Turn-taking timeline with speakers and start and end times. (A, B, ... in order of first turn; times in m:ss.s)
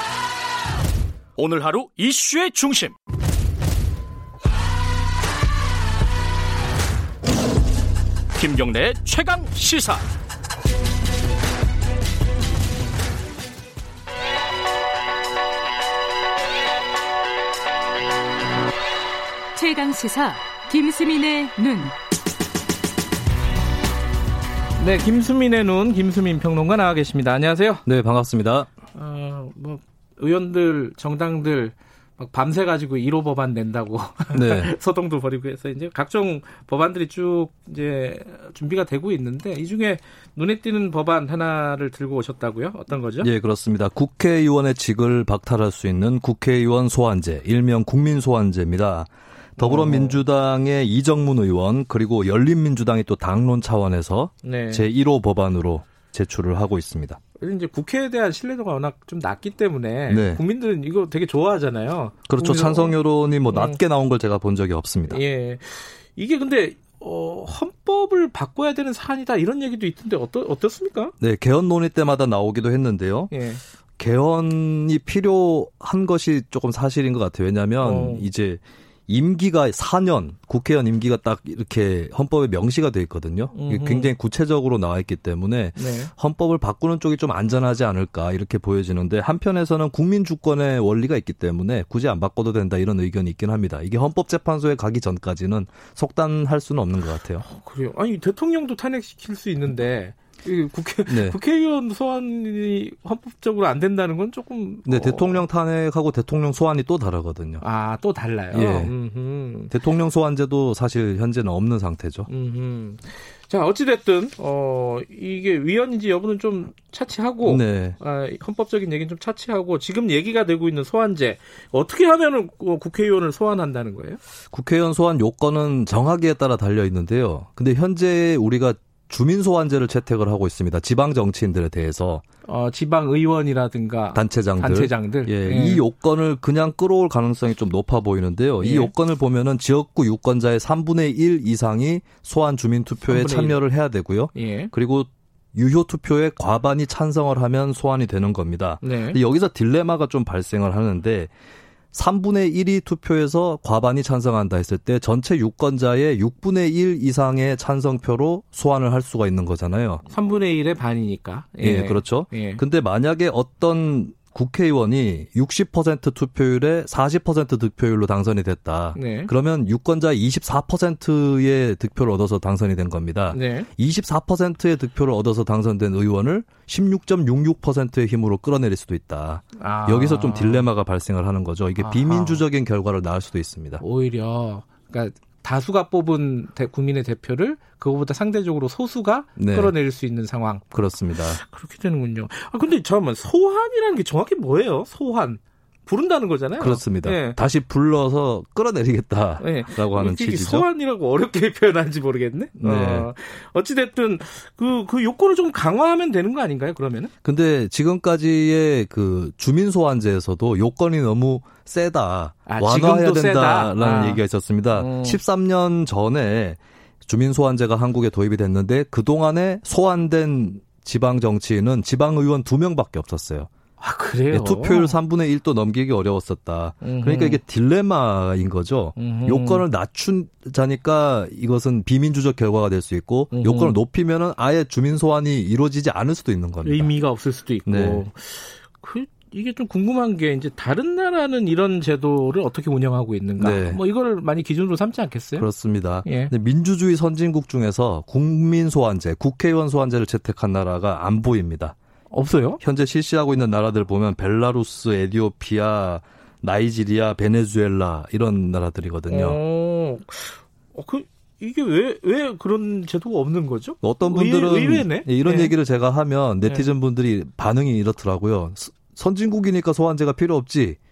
0:01.4-0:02.9 A
0:01.9-0:02.9 B
0:08.4-0:10.0 A
0:09.0-0:09.7 B
0:19.6-0:21.9 B
0:24.8-0:27.8 C
0:27.8-0:28.7 D
0:28.9-0:43.3 C
0:34.3-0:34.7 D
0:43.2-0:57.2 D
0:49.6-0:50.2 C
0:54.4-0:54.8 C
0:57.4-1:03.0 C
1:00.1-1:00.4 D
1:02.3-1:05.2 D
1:03.5-1:03.8 C
1:05.1-1:11.1 C
1:11.2-1:13.3 D
1:13.3-1:13.6 C
1:14.0-1:37.4 D
1:17.8-1:18.3 C
1:23.5-1:24.1 C
1:25.8-1:26.1 C
1:37.4-1:45.4 C
1:41.1-1:41.4 D
1:44.9-1:47.6 D
1:47.6-1:49.7 C
1:48.5-1:48.9 D
1:49.7-1:52.3 D
1:52.3-2:04.2 C
1:57.4-1:58.0 D
2:04.5-2:12.2 D
2:12.4-2:15.8 C
2:14.2-2:31.3 D
2:18.6-2:18.9 C
2:23.0-2:23.6 C
2:24.3-2:24.7 C
2:28.8-2:29.2 C
2:31.9-2:40.0 D
2:40.1-2:42.6 C
2:41.6-3:03.8 D
2:48.9-2:49.3 C
2:53.3-2:53.7 C
2:59.6-3:00.7 C
3:01.8-3:02.4 C
3:03.8-3:17.4 C
3:09.4-3:09.7 D
3:10.7-3:11.4 D
3:16.6-3:20.7 D
3:19.4-3:27.1 C
3:22.6-3:23.1 D
3:27.2-3:43.5 D
3:32.5-3:35.2 C
3:43.8-3:45.0 C
3:44.3-3:56.9 D
3:46.8-3:47.4 C
3:49.0-3:49.7 C
3:53.3-3:53.8 C
3:56.6-4:05.5 C
3:57.7-3:58.0 D
4:03.4-4:03.8 D
4:05.4-4:11.7 D
4:06.0-4:06.3 C
4:12.1-4:12.6 C
4:12.6-4:19.4 D
4:19.1-4:25.5 C
4:23.8-4:30.8 D
4:26.4-4:26.7 C